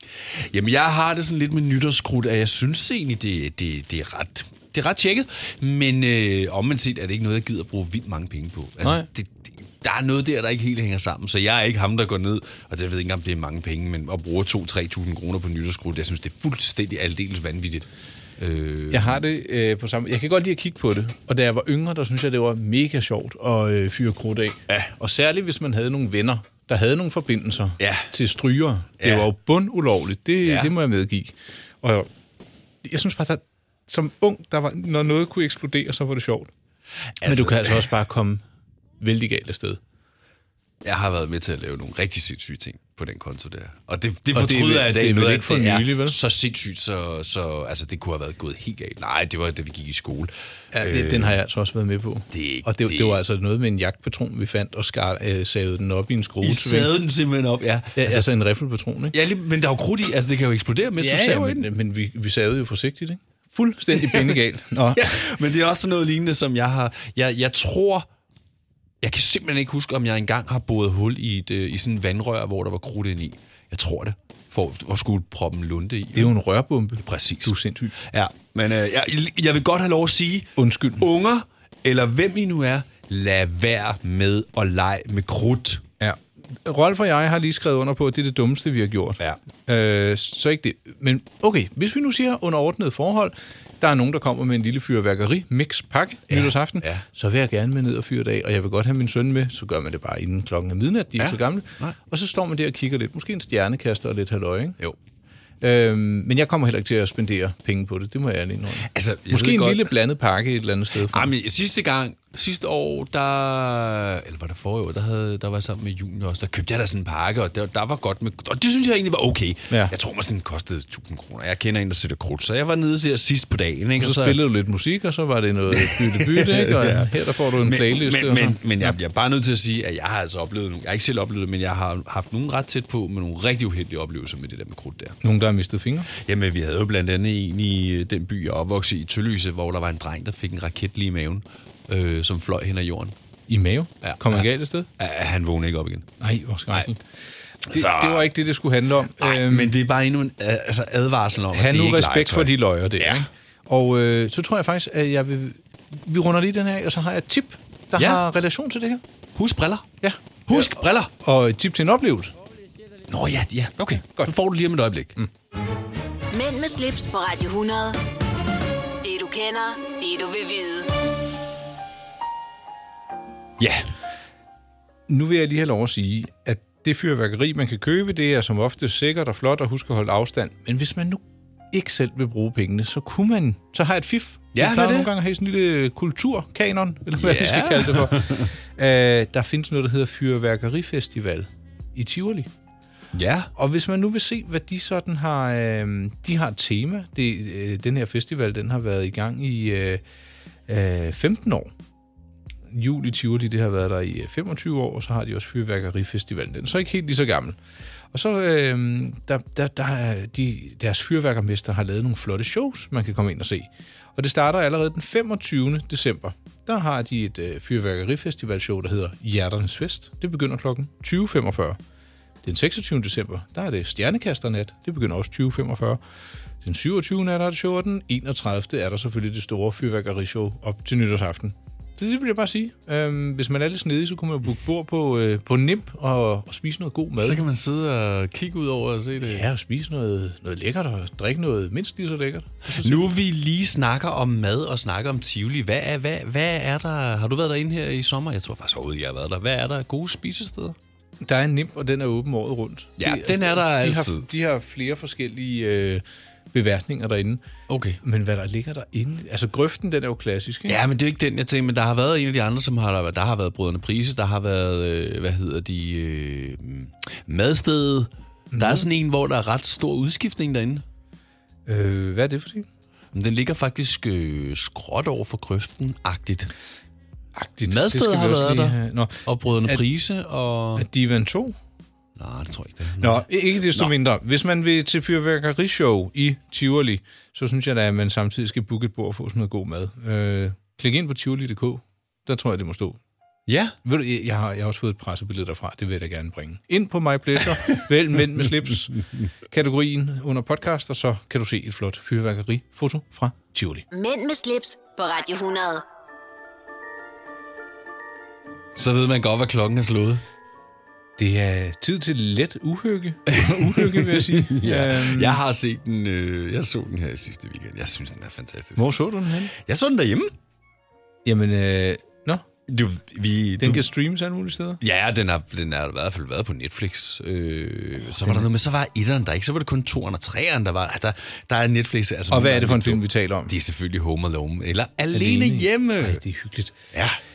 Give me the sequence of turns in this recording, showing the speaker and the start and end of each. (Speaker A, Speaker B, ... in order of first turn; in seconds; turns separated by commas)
Speaker A: 0.3-19.2, Speaker B: 18.9-32.1, Speaker A: 24.7-24.9, Speaker A: 27.8-28.1, Speaker A: 29.0-29.2, Speaker A: 30.4-30.7, Speaker B: 32.8-36.5, Speaker A: 37.2-37.9, Speaker B: 37.2-38.4, Speaker B: 39.0-39.8, Speaker A: 40.8-51.4, Speaker B: 44.3-46.2, Speaker B: 50.7-57.0, Speaker A: 52.3-53.2, Speaker A: 56.4-58.3, Speaker B: 58.0-59.1, Speaker A: 59.1-61.7, Speaker B: 61.0-65.2, Speaker A: 63.9-64.4, Speaker A: 64.9-68.1, Speaker A: 69.0-76.3, Speaker B: 76.1-77.9, Speaker A: 77.0-85.8, Speaker B: 80.6-81.0, Speaker B: 86.0-104.8, Speaker A: 96.3-97.0, Speaker A: 101.2-102.0, Speaker B: 105.6-111.3, Speaker A: 108.8-109.9, Speaker A: 111.1-124.4, Speaker B: 124.0-129.0, Speaker A: 125.7-135.2, Speaker B: 135.2-136.1, Speaker A: 136.1-143.2, Speaker B: 143.5-144.9, Speaker A: 144.0-146.1, Speaker B: 146.2-147.0, Speaker B: 147.6-149.8, Speaker A: 147.7-148.3, Speaker A: 149.2-153.3, Speaker B: 151.5-159.0, Speaker A: 157.9-158.2, Speaker A: 159.3-159.9, Speaker B: 160.0-162.3, Speaker A: 160.5-161.1, Speaker A: 163.1-165.2, Speaker C: 166.3-168.0, Speaker C: 169.0-170.9, Speaker A: 173.6-173.9, Speaker B: 175.1-181.2, Speaker B: 181.7-192.5, Speaker A: 184.5-185.1, Speaker A: 187.2-188.5, Speaker A: 193.1-193.5, Speaker B: 193.6-200.0, Speaker B: 200.7-201.7, Speaker B: 202.7-207.6, Speaker B: 208.1-221.8, Speaker B: 222.4-226.0, Speaker B: 226.6-237.4, Speaker A: 237.2-239.4, Speaker B: 239.2-243.0, Speaker A: 242.7-250.8, Speaker B: 251.2-257.4, Speaker A: 253.0-254.3, Speaker A: 257.7-258.0, Speaker B: 258.0-260.8, Speaker A: 260.7-270.8, Speaker B: 268.5-268.9, Speaker B: 271.6-272.7, Speaker A: 273.1-276.5, Speaker B: 277.4-279.8, Speaker A: 277.6-280.9, Speaker B: 280.8-281.6, Speaker A: 282.1-283.9, Speaker B: 283.0-293.0, Speaker A: 293.5-293.8, Speaker B: 293.8-298.9, Speaker B: 299.5-303.8, Speaker C: 303.9-305.8, Speaker A: 308.7-310.2, Speaker B: 311.2-315.4, Speaker A: 313.3-318.9, Speaker B: 318.8-319.5, Speaker A: 319.5-320.3, Speaker B: 321.2-322.4, Speaker A: 322.7-323.9, Speaker B: 323.6-324.8, Speaker A: 324.8-336.2, Speaker B: 328.2-328.5, Speaker B: 332.3-333.5, Speaker B: 335.1-336.7, Speaker A: 336.9-337.2